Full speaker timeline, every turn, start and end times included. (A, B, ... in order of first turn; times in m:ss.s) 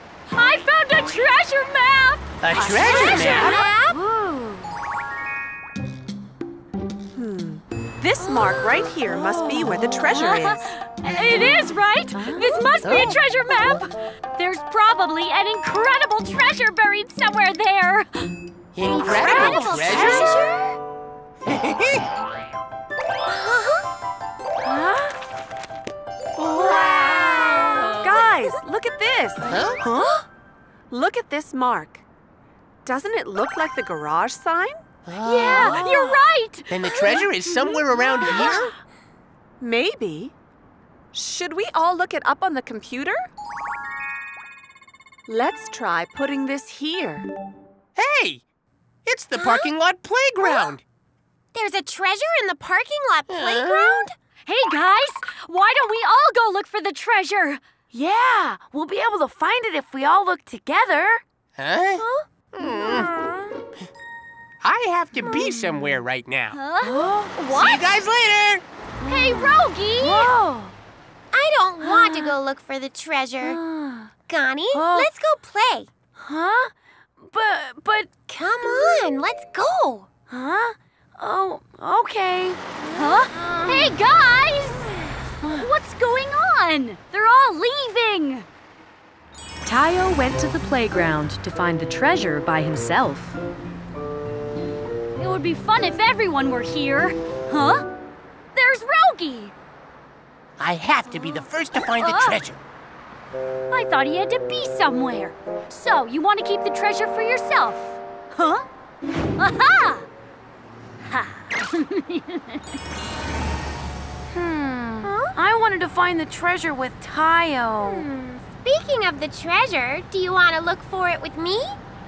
0:00.3-0:03.7 A
0:02.4-0:03.6 B
0:02.5-0:03.6 C
0:02.8-0:04.7 D
0:03.3-0:03.7 E
0:07.2-0:10.7 C
0:09.1-0:10.0 D
0:10.1-0:18.3 A
0:12.1-0:12.7 D
0:12.8-0:13.2 B
0:18.7-0:20.4 B
0:18.9-0:20.8 E
0:19.1-0:20.3 D
0:23.3-0:23.8 E
0:24.6-0:25.1 D
0:26.9-0:27.7 D
0:27.3-0:28.0 E
0:28.0-0:30.2 C
0:29.4-0:29.8 B
0:30.9-0:32.0 C
0:32.8-0:34.8 C
0:35.0-0:36.1 B
0:35.2-0:37.3 A
0:36.7-0:38.7 B
0:38.0-0:38.6 A
0:39.6-0:40.3 C
0:41.1-0:43.3 C
0:45.3-0:47.3 C
0:48.0-0:48.4 B
0:49.1-0:50.8 B
0:49.4-0:49.7 E
0:50.4-0:50.7 E
0:51.5-0:54.2 E
0:53.3-0:54.0 B
0:54.5-0:57.6 A
0:57.9-1:01.2 D
1:01.6-1:03.1 B
1:04.6-1:06.6 B
1:06.5-1:07.8 A
1:06.8-1:07.7 D
1:07.5-1:08.6 B
1:09.0-1:10.3 A
1:09.0-1:10.7 D
1:11.3-1:13.6 E
1:11.8-1:12.4 D
1:13.4-1:14.1 D
1:14.3-1:15.9 E
1:14.7-1:15.1 D
1:16.2-1:19.1 D
1:18.3-1:20.1 E
1:20.3-1:23.2 D
1:22.9-1:25.0 A
1:23.3-1:24.0 E
1:25.4-1:25.7 D
1:25.5-1:28.5 A
1:29.6-1:33.4 F
1:35.2-1:37.8 A
1:38.5-1:39.5 A
1:40.6-1:42.6 B
1:41.1-1:41.4 A
1:42.0-1:42.4 A
1:43.7-1:48.7 A
1:49.4-1:50.1 A
1:51.0-1:52.8 A
1:54.3-1:58.1 D
1:55.0-1:55.4 E
1:57.8-2:01.8 E